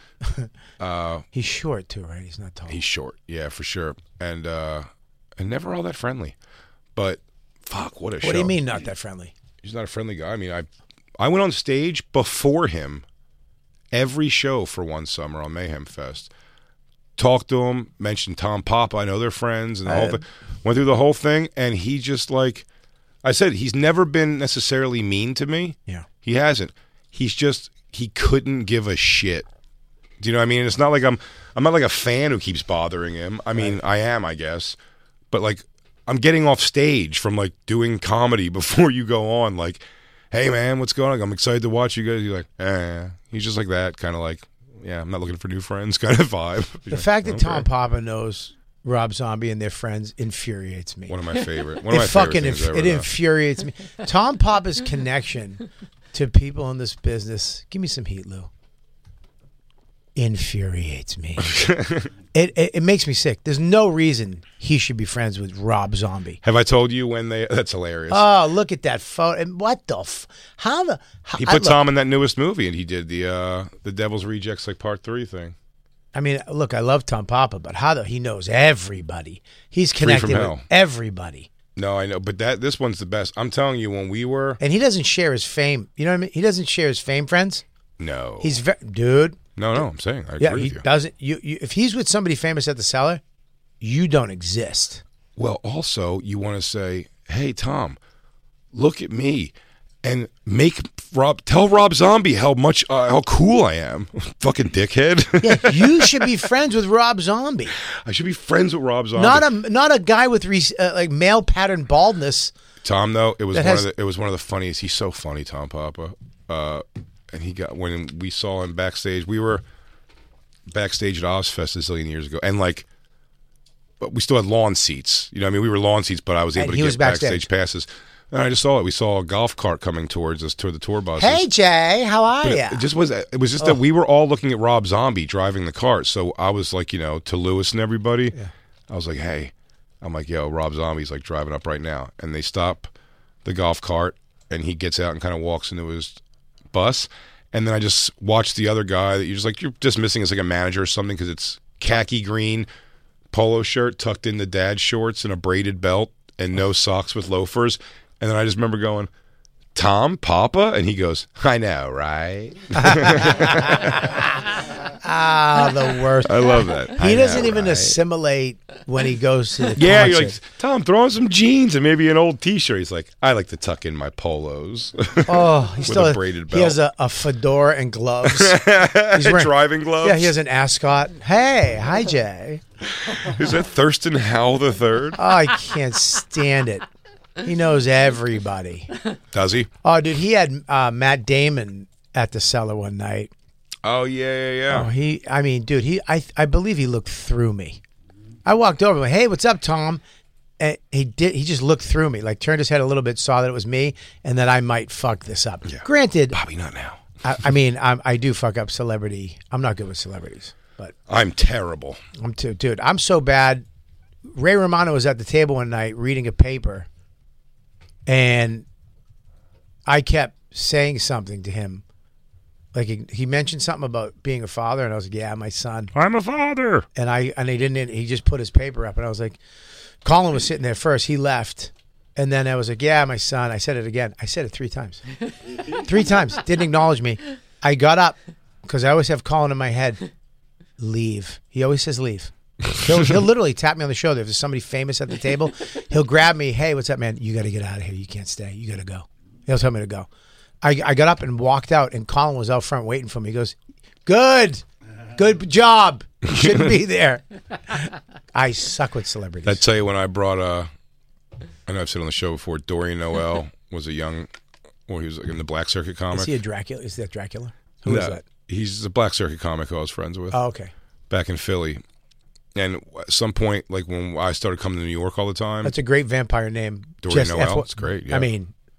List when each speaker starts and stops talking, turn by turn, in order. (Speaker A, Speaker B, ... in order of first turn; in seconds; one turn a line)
Speaker A: 0.8-1.3
Speaker B: 1.3-2.8
Speaker A: 2.7-6.4
Speaker A: 7.0-8.6
Speaker B: 8.2-9.3
Speaker A: 9.6-10.7
Speaker A: 11.2-13.1
Speaker A: 13.9-16.3
Speaker A: 17.2-22.7
Speaker B: 19.9-20.2
Speaker A: 23.2-29.5
Speaker A: 30.2-34.8
Speaker A: 35.3-47.7
Speaker B: 46.9-51.2
Speaker A: 51.1-53.1
Speaker B: 51.9-58.5
Speaker B: 60.2-61.6
Speaker A: 61.4-62.1
Speaker B: 62.3-66.4
Speaker A: 66.4-68.3
Speaker B: 68.1-71.8
Speaker A: 71.4-75.5
Speaker B: 76.1-81.5
Speaker A: 80.0-80.7
Speaker A: 81.8-84.6
Speaker B: 84.6-87.6
Speaker A: 88.0-88.6
Speaker B: 88.4-89.4
Speaker A: 89.6-90.8
Speaker B: 90.4-93.2
Speaker B: 93.8-95.0
Speaker A: 95.4-98.0
Speaker A: 98.7-106.3
Speaker B: 105.4-107.8
Speaker A: 107.8-109.5
Speaker B: 109.2-112.5
Speaker A: 112.8-119.6
Speaker B: 113.5-113.9
Speaker A: 120.7-122.9
Speaker A: 124.0-131.4
Speaker B: 126.6-127.5
Speaker B: 131.2-132.8
Speaker A: 132.4-138.3
Speaker A: 138.9-142.9
Speaker A: 143.4-146.2
Speaker A: 146.7-152.7
Speaker A: 153.3-159.1
Speaker A: 159.8-164.2
Speaker B: 162.8-164.2
Speaker B: 165.0-170.4
Speaker A: 166.2-168.0
Speaker A: 169.8-176.8
Speaker B: 175.3-182.6
Speaker A: 178.2-180.3
Speaker A: 183.0-185.2
Speaker B: 185.2-186.9
Speaker B: 187.4-188.9
Speaker A: 189.3-189.7
Speaker B: 189.8-193.3
Speaker A: 193.8-194.9
Speaker B: 194.7-197.8
Speaker B: 198.5-200.0
Speaker B: 200.6-206.4
Speaker A: 205.7-207.1
Speaker B: 207.2-210.9
Speaker A: 211.1-212.0
Speaker B: 212.2-213.6
Speaker B: 214.3-216.9
Speaker B: 218.1-218.7
Speaker B: 219.9-221.8
Speaker B: 222.7-225.9
Speaker A: 225.9-226.9
Speaker B: 227.0-229.4
Speaker B: 230.0-235.0
Speaker B: 235.7-240.0
Speaker B: 240.8-250.1
Speaker B: 250.6-259.6
Speaker A: 256.2-256.8
Speaker A: 259.5-260.7
Speaker A: 261.7-264.3
Speaker A: 264.9-266.3
Speaker B: 266.1-268.2
Speaker A: 267.9-270.4
Speaker B: 270.3-270.7
Speaker A: 271.1-271.8
Speaker A: 272.6-275.8
Speaker B: 275.6-278.5
Speaker A: 277.0-278.3